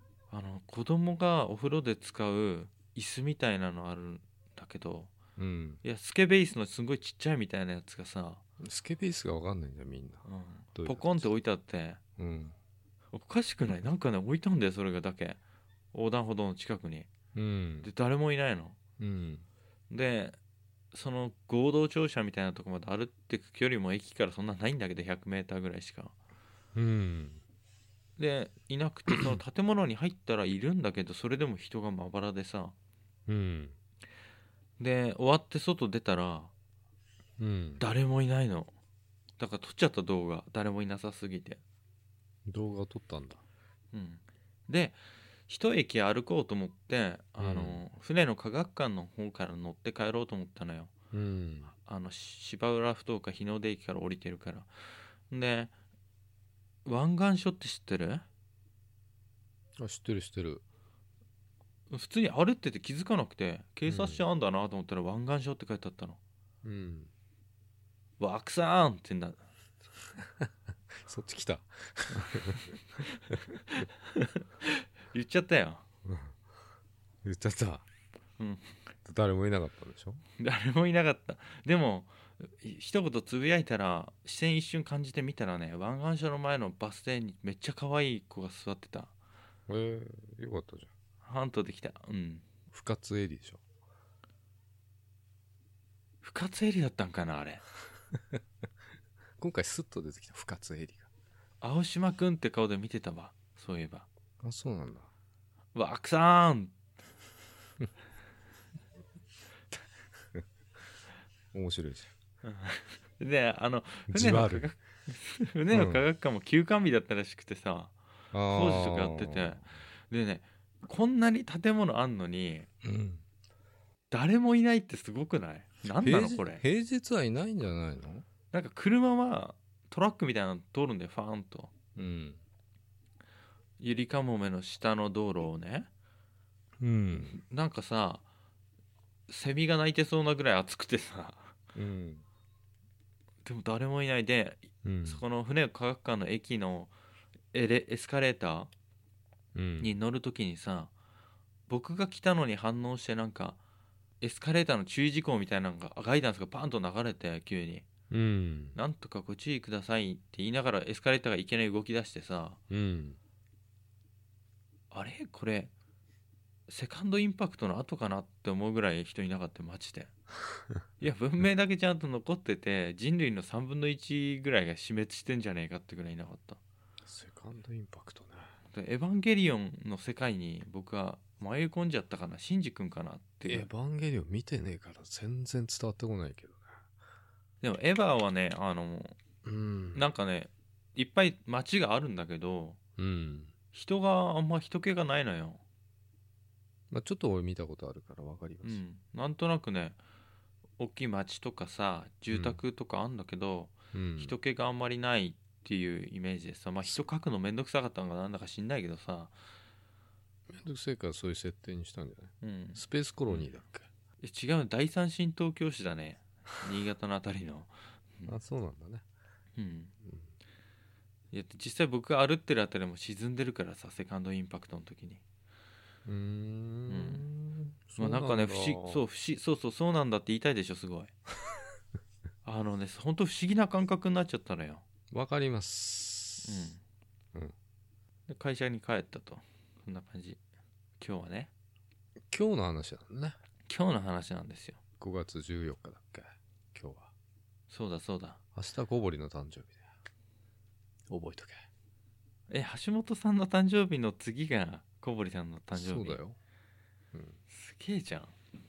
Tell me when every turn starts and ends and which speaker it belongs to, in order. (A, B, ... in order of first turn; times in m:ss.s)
0:00.3-0:05.1 A
0:05.4-0:05.8 B
0:05.8-0:08.4 A
0:08.6-0:10.2 B
0:10.3-0:12.0 A
0:10.8-0:11.3 B
0:12.2-0:12.6 B
0:13.1-0:15.4 A
0:15.9-0:17.1 A
0:17.3-0:17.9 B
0:17.8-0:18.8 A
0:19.0-0:19.5 B
0:19.9-0:20.4 A
0:20.9-0:26.2 A
0:26.8-0:27.4 B
0:28.2-0:32.7 A
0:33.3-0:33.8 B
0:34.8-0:36.5 A
0:37.4-0:37.8 B
0:37.8-0:38.7 A
0:39.4-0:41.6 A
0:42.5-0:43.4 B
0:43.9-0:50.9 A
0:47.4-0:47.8 B
0:51.1-0:51.7 B
0:51.8-0:54.7 A
0:55.3-0:55.7 A
0:56.8-0:58.2 A
0:59.8-1:00.6 B
1:01.9-1:06.2 A
1:03.9-1:04.2 B
1:06.6-1:07.1 B
1:08.2-1:09.4 A
1:10.2-1:12.8 B
1:13.5-1:15.8 A
1:16.0-1:16.4 B
1:17.2-1:17.9 B
1:18.4-1:18.8 A
1:19.0-1:20.2 B
1:20.4-1:29.1 A
1:29.7-1:30.9 B
1:31.2-1:32.5 A
1:32.7-1:33.6 B
1:36.2-1:37.6 A
1:39.4-1:41.1 B
1:41.6-1:44.1 A
1:44.4-1:45.1 B
1:45.7-1:46.8 A
1:51.5-1:52.1 B
1:52.4-1:57.9 A
1:54.1-1:54.7 B
1:55.7-1:56.1 B
1:58.3-1:59.6 B
1:58.5-2:02.7 A
2:02.8-2:03.2 B
2:04.1-2:06.6 A
2:05.9-2:08.2 B
2:08.5-2:11.7 A
2:12.0-2:12.4 B
2:13.8-2:15.9 A
2:16.8-2:17.4 B
2:17.1-2:18.2 A
2:19.3-2:21.6 A
2:21.8-2:22.2 B
2:23.4-2:26.9 A
2:24.8-2:25.2 B
2:27.5-2:28.7 A
2:29.6-2:30.0 B
2:29.8-2:30.9 A
2:31.7-2:33.6 A
2:34.2-2:37.9 A
2:38.1-2:38.8 B
2:38.8-2:42.6 A
2:42.7-2:43.2 B
2:44.9-2:45.7 A
2:46.7-2:50.1 A
2:51.0-2:56.6 A
2:57.0-2:58.5 B
2:58.7-3:03.7 A
3:03.4-3:06.8 B
3:07.6-3:09.2 A
3:09.4-3:10.1 B
3:09.9-3:12.8 A
3:13.0-3:13.5 B
3:13.7-3:15.6 A
3:16.9-3:18.8 B
3:18.6-3:20.0 A
3:20.8-3:29.4 A
3:22.3-3:22.6 B
3:23.9-3:24.4 B
3:30.5-3:33.9 B
3:32.4-3:33.5 A
3:34.2-3:38.4 A
3:38.3-3:39.0 B
3:39.6-3:39.9 A
3:41.3-3:45.2 A
3:46.1-3:49.0 B
3:46.9-3:47.2 A
3:48.0-3:51.1 A
3:52.4-3:54.8 A
3:55.1-3:56.7 B
3:56.4-3:56.8 A
3:58.3-4:00.4 A
4:01.0-4:01.5 A
4:02.3-4:03.4 B
4:03.7-4:04.8 A
4:05.0-4:07.1 B
4:07.7-4:08.4 A
4:08.6-4:09.8 B
4:11.1-4:11.6 B
4:12.5-4:16.2 A
4:15.7-4:16.4 B
4:17.1-4:17.4 B
4:17.5-4:18.3 A